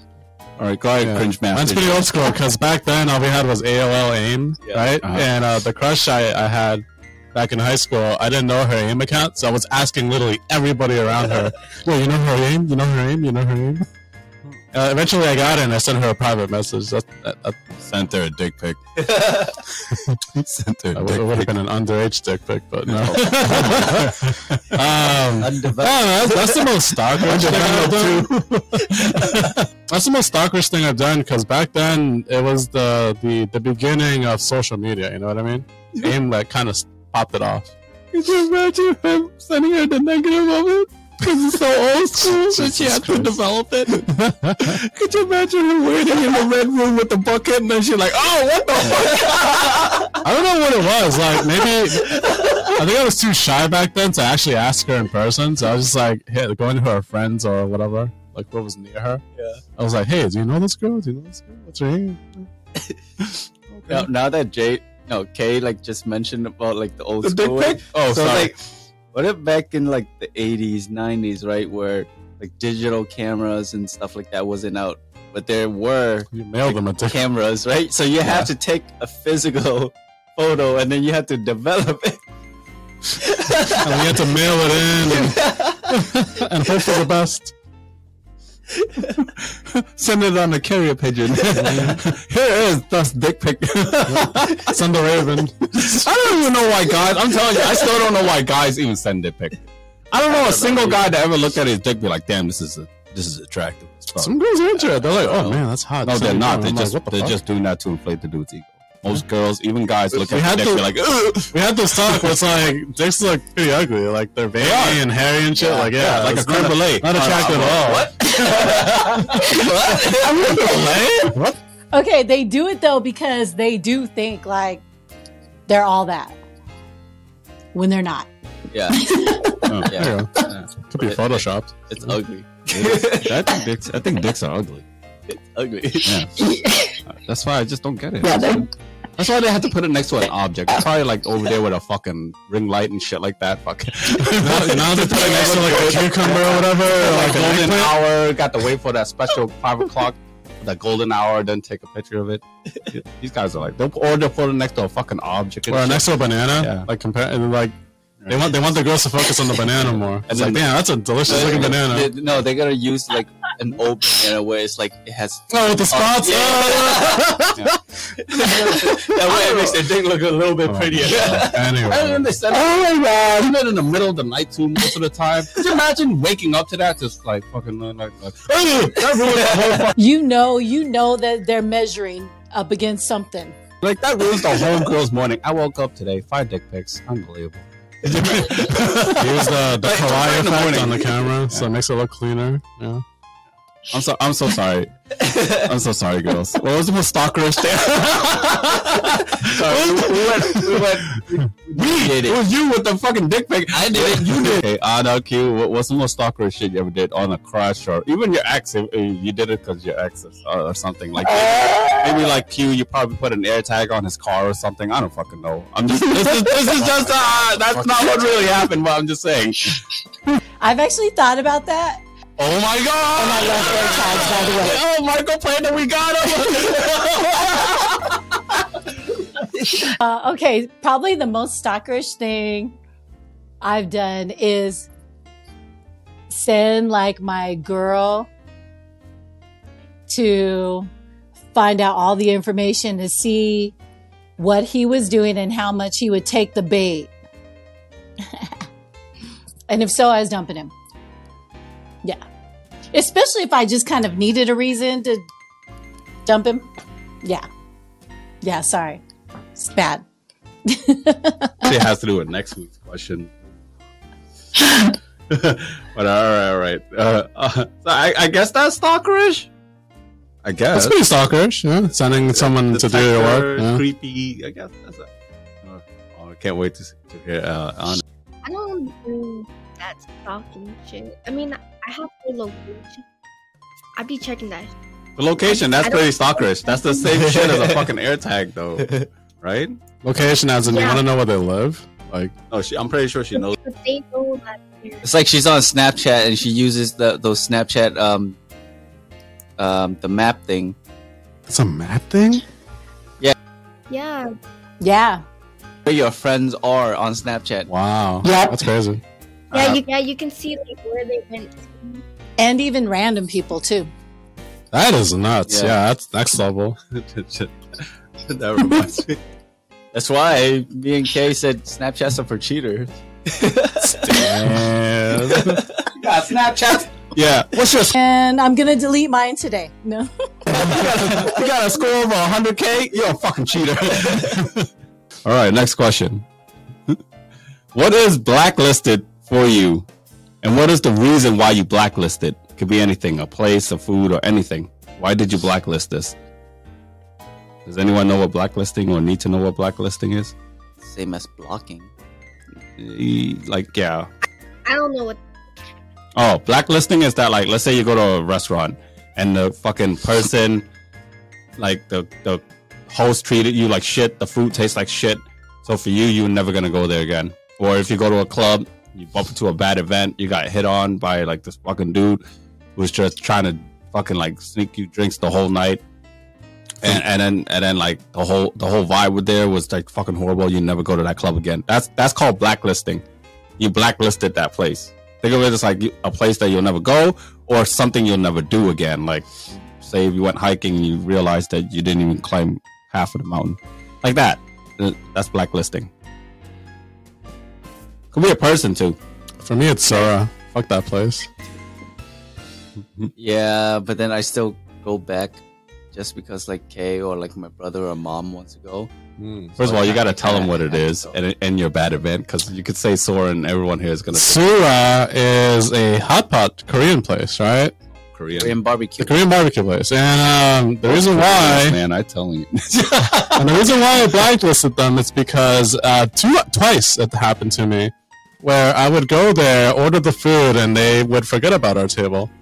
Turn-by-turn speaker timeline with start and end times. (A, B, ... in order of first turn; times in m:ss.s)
0:00.6-0:02.2 A
0:01.0-0:13.8 B
0:04.6-0:04.9 C
0:14.7-0:17.8 B
0:17.8-0:19.0 A
0:19.0-0:19.6 C
0:20.3-0:21.5 A
0:20.9-0:28.3 B
0:22.9-0:24.6 A
0:23.6-0:24.0 C
0:25.4-0:26.7 C
0:27.2-0:29.4 A
0:27.2-0:27.8 C
0:29.4-0:37.7 B
0:38.1-0:50.1 A
0:42.2-0:43.4 B
0:44.0-0:44.8 B
0:49.3-0:49.9 C
0:50.2-0:59.2 B
0:52.2-0:52.6 C
0:59.4-0:59.6 C
0:59.8-1:02.5 B
1:03.7-1:04.1 A
1:03.9-1:08.6 C
1:07.2-1:08.5 A
1:09.1-1:22.2 C
1:16.3-1:17.2 B
1:23.2-1:24.3 C
1:23.8-1:27.5 B
1:25.0-1:25.9 C
1:28.8-1:29.1 C
1:29.2-1:34.8 A
1:31.5-1:31.8 C
1:31.6-1:32.0 B
1:34.1-1:36.0 B
1:35.7-1:39.6 A
1:40.1-1:44.3 A
1:40.3-1:41.0 C
1:44.2-1:47.3 B
1:45.0-1:45.6 C
1:46.0-1:52.3 A
1:50.1-1:50.9 B
1:51.5-1:58.5 B
1:54.6-1:55.0 A
1:55.6-1:56.0 C
1:56.0-1:58.0 A
1:57.2-2:01.2 C
1:58.6-1:59.6 A
1:59.0-1:59.6 B
2:00.2-2:01.3 A
2:00.5-2:01.6 B
2:01.9-2:04.8 D
2:05.7-2:06.4 D
2:07.7-2:08.3 D
2:08.7-2:09.1 C
2:08.9-2:09.7 D
2:09.7-2:09.9 A
2:09.8-2:12.1 B
2:09.9-2:13.4 C
2:12.7-2:14.8 A
2:15.3-2:16.2 C
2:16.0-2:16.5 A
2:17.0-2:36.9 A
2:24.4-2:28.0 B
2:35.7-2:37.7 B
2:38.2-2:38.6 A
2:38.3-2:42.1 B
2:39.8-2:40.6 A
2:41.2-2:47.5 C
2:41.3-2:41.8 A
2:45.5-2:47.7 B
2:48.2-2:52.0 C
2:48.4-2:59.9 A
2:50.6-2:52.3 B
2:59.0-2:59.9 C
3:00.0-3:03.6 D
3:03.8-3:11.7 A
3:08.2-3:08.9 C
3:09.0-3:13.0 B
3:13.9-3:14.9 A
3:15.2-3:15.7 C
3:15.5-3:20.8 A
3:19.0-3:22.4 C
3:21.7-3:39.8 A
3:23.7-3:24.6 C
3:40.6-3:42.0 D
3:42.4-3:48.6 A
3:43.2-3:44.8 D
3:50.0-3:52.8 D
3:53.6-3:54.9 D
3:56.3-3:58.3 D
4:00.1-4:00.9 D
4:01.5-4:03.7 D
4:04.4-4:07.1 D
4:09.7-4:10.7 D
4:12.9-4:15.3 D
4:16.2-4:16.7 D
4:18.4-4:19.0 D
4:19.5-4:20.0 D
4:20.6-4:21.7 D
4:21.6-4:23.4 A
4:25.3-4:29.5 A
4:30.4-4:31.0 A
4:30.7-4:33.8 B
4:32.2-4:35.1 A
4:35.6-4:38.0 A
4:38.4-4:43.0 E
4:44.0-4:44.7 E
4:45.2-4:49.8 A
4:45.4-4:47.1 E
4:47.1-4:47.9 C
4:48.8-4:49.1 C
4:50.0-4:52.3 B
4:50.6-4:51.1 E
4:52.5-4:53.6 A
4:53.3-4:55.0 E
4:55.0-4:58.4 C
4:59.6-5:00.8 C
5:01.5-5:02.4 B
5:03.9-5:04.3 E
5:04.8-5:05.2 D
5:05.8-5:07.7 C
5:07.7-5:09.0 B
5:09.5-5:09.8 C
5:09.5-5:12.0 E
5:12.4-5:13.9 D
5:14.7-5:16.9 B
5:15.5-5:15.7 C
5:17.0-5:17.5 A
5:18.3-5:19.2 A
5:19.9-5:24.5 C
5:23.8-5:25.6 B
5:25.2-5:25.9 C
5:25.9-5:27.9 A
5:27.9-5:30.5 D
5:30.5-5:34.7 A
5:30.8-5:31.4 C
5:34.0-5:34.3 C
5:35.2-5:36.2 A
5:37.7-5:39.9 A
5:40.4-5:46.2 A
5:47.6-5:50.3 A
5:50.8-5:51.9 C
5:52.8-5:54.1 A
5:54.6-5:55.2 E
5:56.2-6:00.7 A
6:01.6-6:12.2 A
6:12.8-6:15.8 A
6:16.8-6:23.0 A
6:23.6-6:35.9 A
6:38.1-6:39.0 A
6:39.4-6:41.3 B
6:43.2-6:45.4 C
6:45.9-6:48.9 C
6:49.2-6:49.6 B
6:49.6-6:54.4 A
6:49.6-6:51.2 C
6:54.1-6:57.8 B
6:58.0-6:58.6 A
6:58.4-6:59.3 C
6:59.0-7:01.8 B
7:00.8-7:03.6 A
7:03.3-7:12.3 B